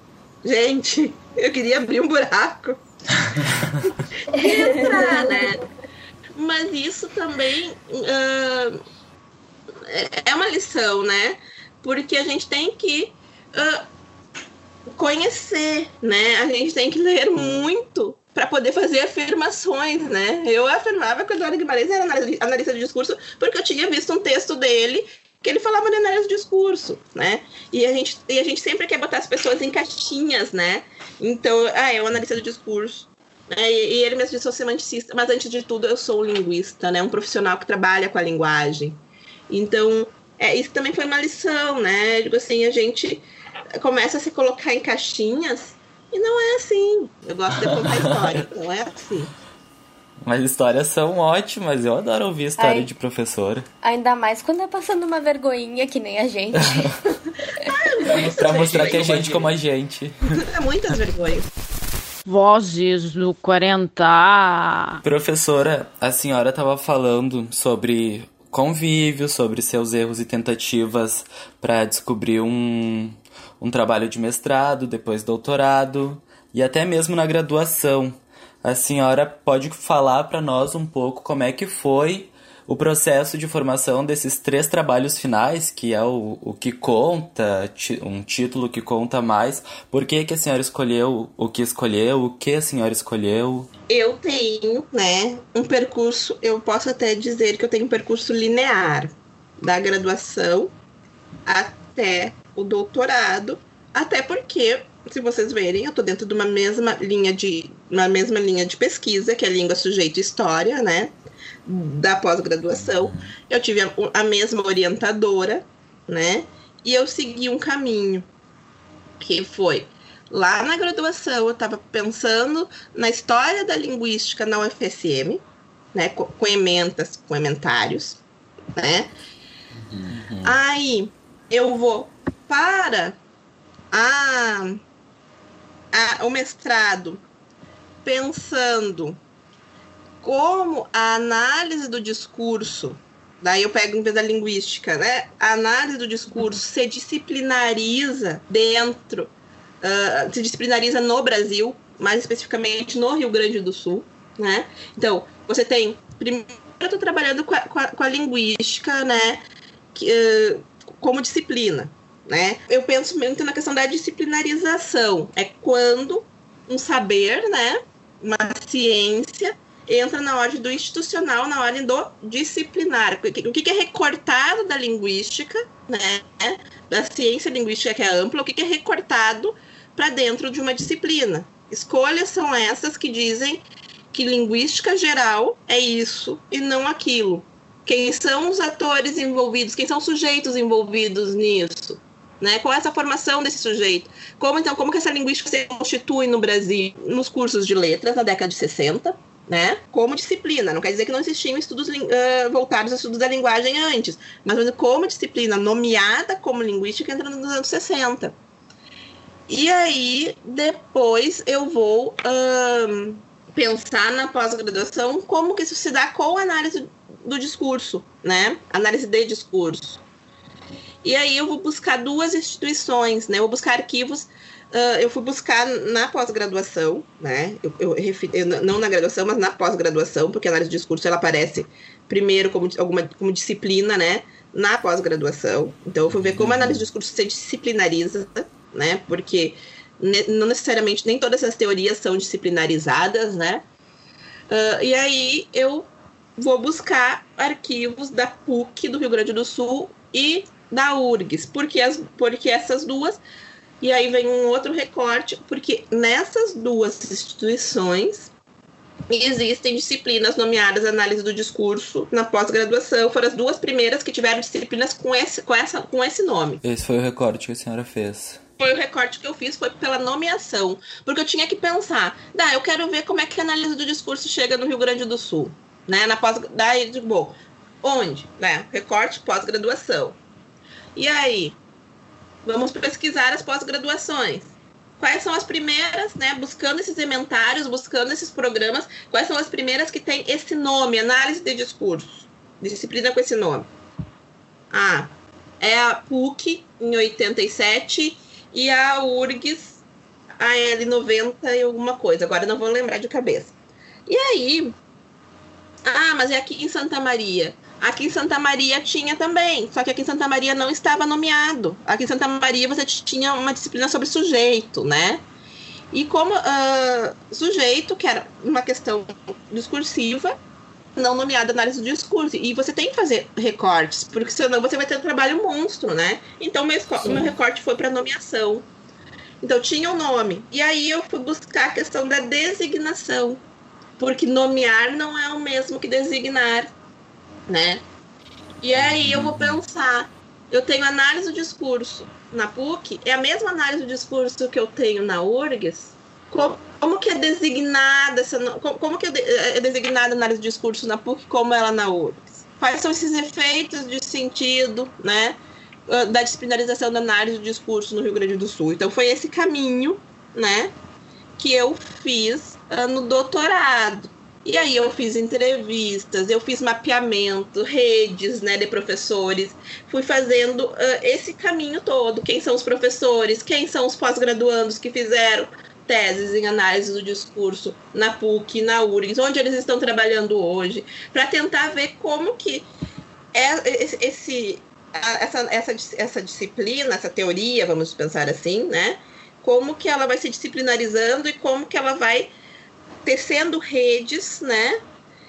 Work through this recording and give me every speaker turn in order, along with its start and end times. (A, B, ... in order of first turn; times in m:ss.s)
0:00.4-0:02.8 A
0:04.3-0:05.6 A
0:04.4-0:05.3 B
0:06.3-0:08.8 A
0:09.8-0:13.8 A
0:14.9-0:43.3 A
0:43.8-0:49.3 A
0:47.6-0:48.2 C
0:50.2-0:53.6 C
0:52.6-0:52.9 B
0:53.8-0:56.9 B
0:57.6-0:59.5 A
0:58.0-1:00.4 C
1:00.4-1:01.5 A
1:02.2-1:05.0 D
1:05.0-1:33.7 C
1:33.9-1:40.7 A
1:41.4-1:51.1 A
1:51.6-1:58.3 A
1:59.2-2:08.2 A
2:08.7-2:09.1 A
2:09.9-2:10.6 C
2:10.4-2:13.2 A
2:13.9-2:14.8 A
2:15.9-2:17.2 A
2:18.0-2:19.2 A
2:20.2-2:39.4 A
2:39.9-3:28.4 A
3:29.5-3:40.0 A
3:41.0-4:03.6 A
3:56.2-3:56.8 C
4:04.5-4:13.2 A
4:13.8-4:18.3 A
4:19.1-4:26.6 A
4:26.6-4:28.4 C
4:28.6-4:40.2 A
4:41.0-4:41.6 A
4:42.4-4:53.7 A
4:54.7-4:59.8 A
5:00.4-5:03.5 A
5:04.1-5:04.8 A
5:05.8-5:15.2 A
5:15.9-5:20.4 A
5:21.0-5:28.7 A
5:29.4-5:33.4 A
5:34.0-5:36.7 A
5:37.5-5:37.8 A
5:38.6-6:00.7 A
5:38.9-5:39.5 C
6:01.4-6:22.7 A
6:23.3-6:32.3 A
6:33.0-6:34.8 A